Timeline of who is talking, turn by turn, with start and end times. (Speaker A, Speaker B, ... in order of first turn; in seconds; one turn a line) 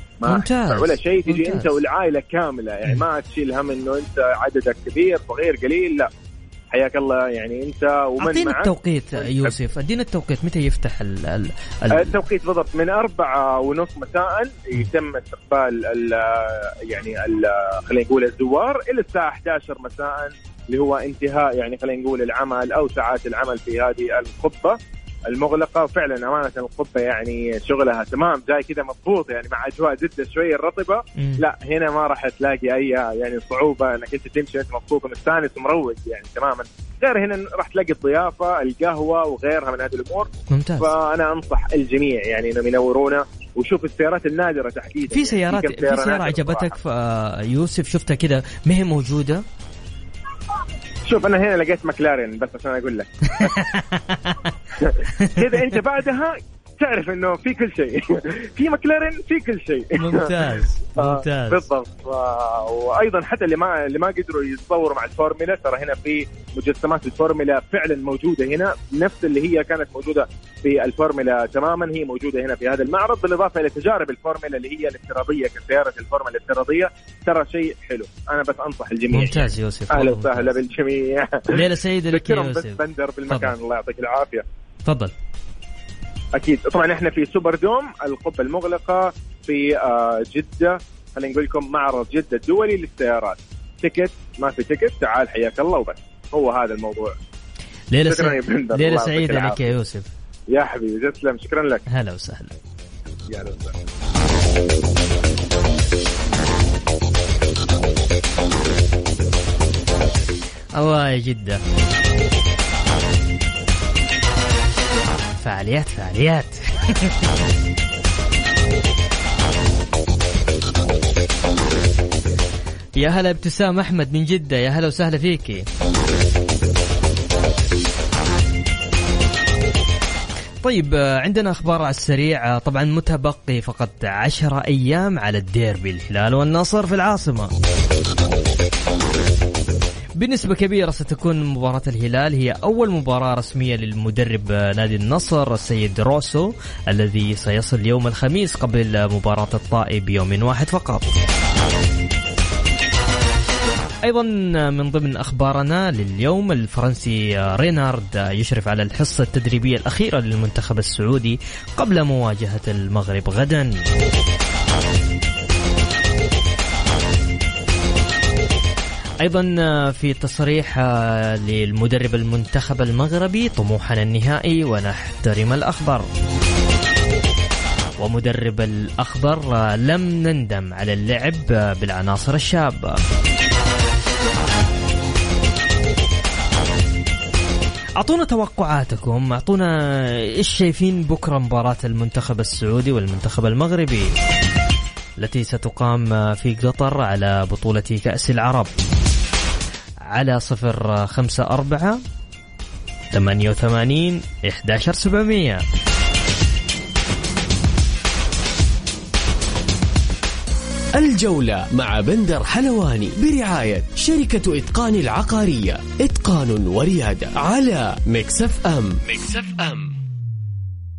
Speaker A: 0.2-6.1
Speaker B: 0.2-1.7
Speaker A: 6.7-9.5
Speaker B: 8.2-12.2
Speaker A: 11.9-40.3
Speaker B: 40.5-40.9
Speaker A: 40.8-46.8
Speaker B: 45.1-49.4
Speaker A: 51.0-53.6
Speaker B: 53.3-54.5
Speaker A: 54.8-60.4
Speaker B: 55.1-55.7
Speaker B: 60.0-61.7
Speaker A: 61.0-84.4
Speaker B: 79.1-80.5
Speaker B: 81.5-83.5
Speaker B: 84.8-85.1
Speaker A: 86.3-97.1
Speaker B: 97.9-100.1
Speaker A: 98.1-99.7
Speaker A: 100.5-101.8
Speaker B: 101.9-102.5
Speaker A: 103.3-103.8
Speaker B: 110.7-111.6
Speaker B: 115.4-117.3
Speaker B: 123.0-125.7
Speaker B: 130.6-137.5
Speaker B: 140.2-151.1
Speaker B: 154.0-163.7
Speaker B: 169.2-176.1
Speaker B: 178.0-183.0
Speaker B: 188.0-189.7
Speaker B: 190.3-194.1
Speaker B: 195.2-198.7
Speaker B: 200.1-202.0
Speaker B: 203.1-205.6
Speaker C: 210.9-220.0